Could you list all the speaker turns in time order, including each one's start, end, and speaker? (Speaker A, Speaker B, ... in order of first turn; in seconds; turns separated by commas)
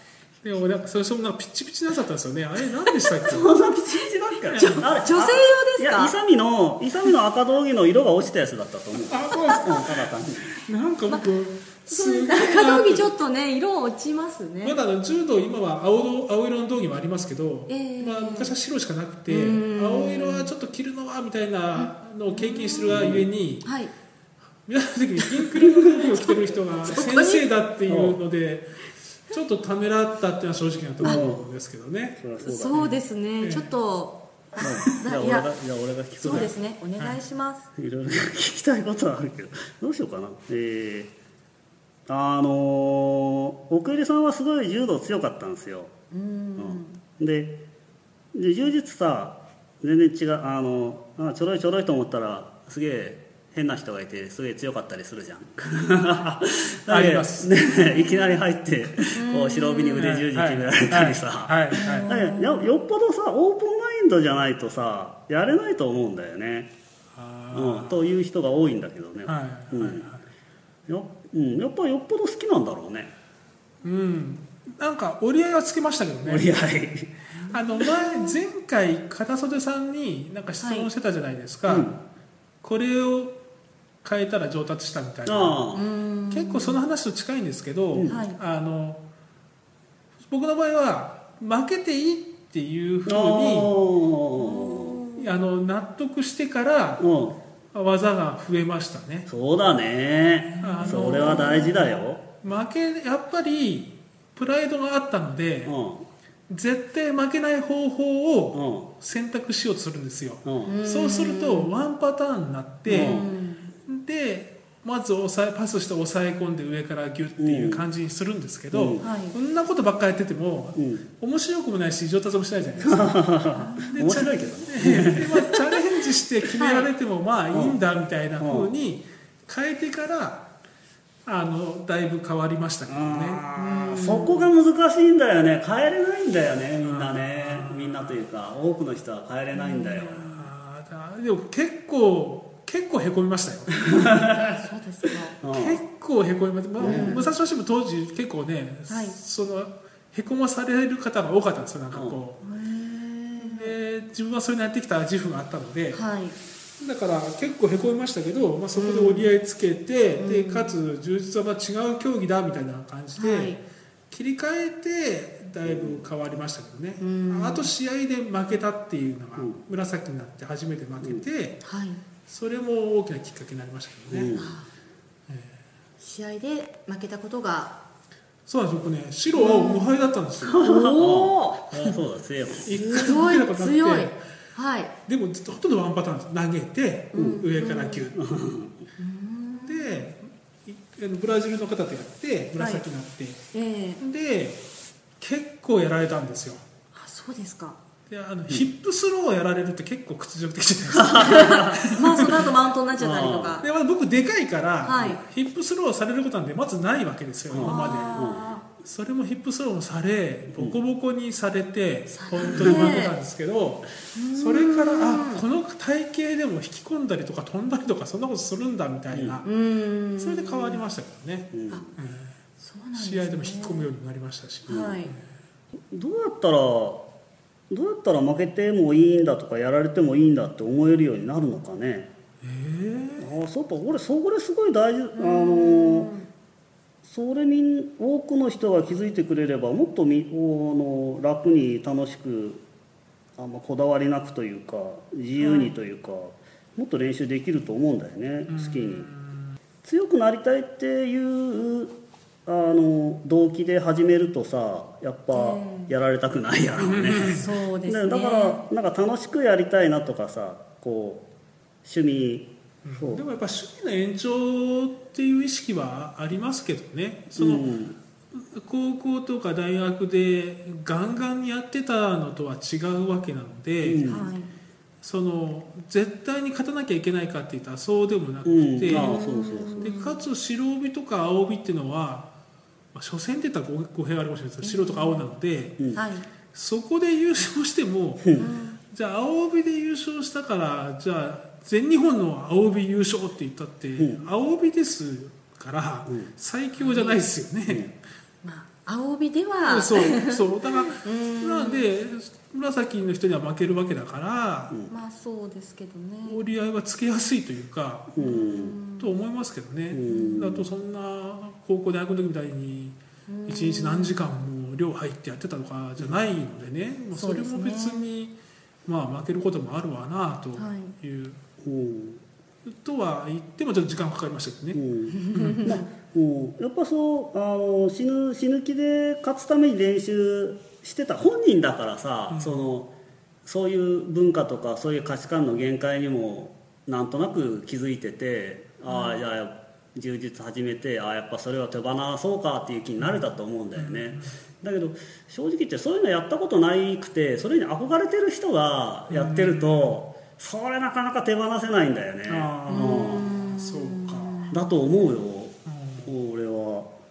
Speaker A: 0.4-3.6, Speaker B: 3.2-10.5, Speaker A: 4.5-4.9, Speaker C: 4.5-6.1, Speaker A: 9.1-9.9, Speaker A: 10.5-13.1, Speaker C: 11.9-14.8, Speaker A: 14.6-23.7, Speaker C: 17.7-18.6, Speaker C: 19.3-20.5, Speaker C: 21.7-23.0, Speaker B: 22.9-23.3, Speaker C: 23.6-23.9, Speaker A: 24.7-32.2, Speaker C: 25.2-27.5, Speaker B: 27.9-28.2, Speaker B: 31.0-31.5, Speaker B: 32.2-32.9, Speaker C: 32.4-35.5, Speaker A: 32.7-33.7, Speaker B: 34.6-36.5, Speaker C: 36.2-37.7, Speaker A: 36.2-37.2, Speaker B: 37.8-41.1, Speaker B: 42.1-45.9, Speaker C: 46.1-47.0, Speaker B: 46.6-47.6, Speaker B: 48.3-66.7, Speaker A: 56.9-57.5, Speaker C: 58.0-58.4, Speaker C: 59.2-60.1, Speaker A: 60.0-62.1, Speaker C: 61.7-62.7, Speaker A: 67.2-68.2, Speaker B: 67.5-70.1, Speaker A: 69.3-70.2, Speaker B: 70.9-73.1, Speaker A: 73.8-76.5, Speaker B: 76.3-77.1, Speaker C: 77.3-77.6, Speaker A: 77.5-81.9, Speaker C: 78.1-78.4, Speaker C: 80.6-80.9, Speaker B: 81.7-82.0, Speaker A: 82.6-83.4, Speaker A: 84.0-85.6, Speaker B: 85.3-85.8, Speaker C: 85.7-86.8, Speaker A: 86.3-89.0, Speaker B: 87.9-88.2, Speaker C: 88.0-88.4, Speaker A: 90.3-93.7, Speaker B: 93.1-95.0, Speaker C: 94.4-95.3, Speaker A: 95.2-97.1, Speaker B: 97.0-97.4, Speaker A: 97.7-99.3, Speaker B: 99.3-102.2, Speaker C: 100.6-101.8, Speaker A: 100.6-101.8, Speaker A: 102.4-105.8, Speaker B: 105.7-106.0, Speaker A: 106.5-113.2, Speaker B: 108.5-108.9, Speaker B: 110.5-110.8, Speaker C: 110.7-111.7, Speaker B: 112.9-113.3, Speaker C: 112.9-113.7, Speaker A: 113.9-123.3, Speaker B: 117.4-117.8, Speaker B: 118.7-119.1, Speaker C: 119.0-119.4, Speaker B: 120.8-121.0, Speaker B: 122.8-125.4, Speaker C: 123.5-124.0, Speaker A: 123.8-130.5, Speaker C: 126.5-126.9, Speaker B: 127.5-127.8, Speaker B: 128.4-128.7, Speaker A: 131.2-133.5, Speaker B: 132.9-140.5, Speaker C: 133.6-134.5, Speaker A: 136.8-138.2, Speaker C: 139.6-140.1, Speaker A: 139.9-143.8, Speaker B: 143.8-144.6, Speaker C: 144.5-145.4, Speaker B: 145.4-145.8, Speaker A: 145.5-152.4, Speaker B: 146.8-147.2, Speaker C: 146.8-147.3, Speaker C: 148.9-149.2, Speaker B: 151.9-152.2, Speaker C: 152.4-153.8, Speaker A: 153.4-156.1, Speaker C: 155.9-156.4, Speaker A: 156.8-163.6, Speaker C: 158.7-159.3, Speaker C: 160.2-160.7, Speaker C: 163.2-163.6, Speaker A: 164.1-171.6, Speaker B: 165.7-166.1, Speaker C: 167.0-167.7, Speaker B: 171.0-171.3, Speaker C: 171.6-172.0, Speaker A: 172.3-174.3, Speaker B: 174.1-174.6, Speaker C: 174.3-174.7, Speaker A: 175.3-175.6, Speaker C: 176.0-177.8, Speaker A: 178.5-180.6, Speaker C: 179.3-181.9, Speaker B: 180.6-182.7, Speaker A: 182.6-184.2, Speaker C: 182.7-184.9, Speaker A: 185.1-188.2, Speaker C: 187.1-188.1, Speaker B: 187.2-187.5, Speaker B: 188.1-188.8, Speaker C: 189.0-190.1, Speaker A: 189.7-193.4, Speaker C: 192.6-192.8, Speaker C: 193.5-194.0, Speaker A: 194.0-194.6, Speaker A: 195.2-196.6, Speaker C: 196.9-197.8, Speaker A: 198.1-202.5, Speaker B: 201.0-201.8, Speaker C: 201.2-203.7, Speaker B: 203.0-203.6, Speaker A: 203.6-208.3, Speaker C: 204.8-205.2, Speaker B: 207.5-208.5, Speaker C: 207.6-208.7, Speaker A: 208.8-219.5, Speaker C: 212.1-213.2, Speaker B: 212.4-212.9, Speaker C: 214.2-215.4, Speaker B: 219.1-219.4, Speaker C: 219.4-220.8, Speaker A: 220.2-222.4, Speaker B: 221.5-222.0, Speaker C: 222.6-223.9, Speaker A: 222.9-225.3, Speaker C: 224.7-225.1, Speaker B: 224.7-225.0, Speaker B: 225.8-227.0, Speaker B: 227.7-232.1, Speaker A: 232.4-233.3, Speaker B: 233.2-236.1, Speaker C: 235.2-236.3, Speaker B: 237.1-242.6, Speaker B: 243.4-249.1, Speaker C: 245.4-245.7, Speaker A: 248.5-249.6, Speaker B: 249.8-251.9, Speaker B: 252.5-261.2, Speaker C: 255.3-255.9, Speaker A: 256.8-257.5, Speaker C: 257.2-258.6, Speaker B: 261.8-263.2, Speaker A: 262.8-267.7, Speaker B: 267.4-268.0, Speaker A: 268.4-274.1, Speaker B: 273.8-274.3, Speaker C: 274.0-274.5, Speaker A: 275.0-279.1, Speaker B: 278.4-279.9, Speaker C: 278.9-280.2, Speaker A: 279.8-282.3, Speaker A: 282.9-285.8, Speaker C: 284.6-285.2, Speaker C: 285.9-286.3, Speaker A: 286.5-297.9, Speaker B: 288.2-288.5, Speaker C: 288.4-288.8, Speaker B: 294.0-294.3, Speaker C: 296.8-297.2, Speaker C: 298.4-301.9, Speaker A: 299.6-304.8, Speaker C: 304.9-306.4, Speaker A: 306.2-308.3, Speaker B: 308.1-308.8, Speaker C: 308.2-309.2, Speaker A: 309.0-318.4, Speaker B: 309.9-310.7, Speaker C: 310.1-310.5, Speaker C: 313.3-314.2, Speaker C: 317.1-318.1, Speaker A: 318.9-321.4, Speaker C: 320.6-320.9, Speaker B: 321.6-322.2, Speaker A: 322.7-324.8, Speaker B: 324.7-332.9, Speaker C: 325.1-325.8, Speaker A: 325.3-325.7, Speaker A: 332.3-332.7, Speaker B: 333.4-353.3, Speaker C: 338.9-339.2, Speaker A: 343.0-344.4, Speaker A: 349.1-350.0, Speaker A: 352.3-354.4, Speaker C: 352.7-354.6, Speaker B: 354.5-356.9, Speaker A: 355.7-356.1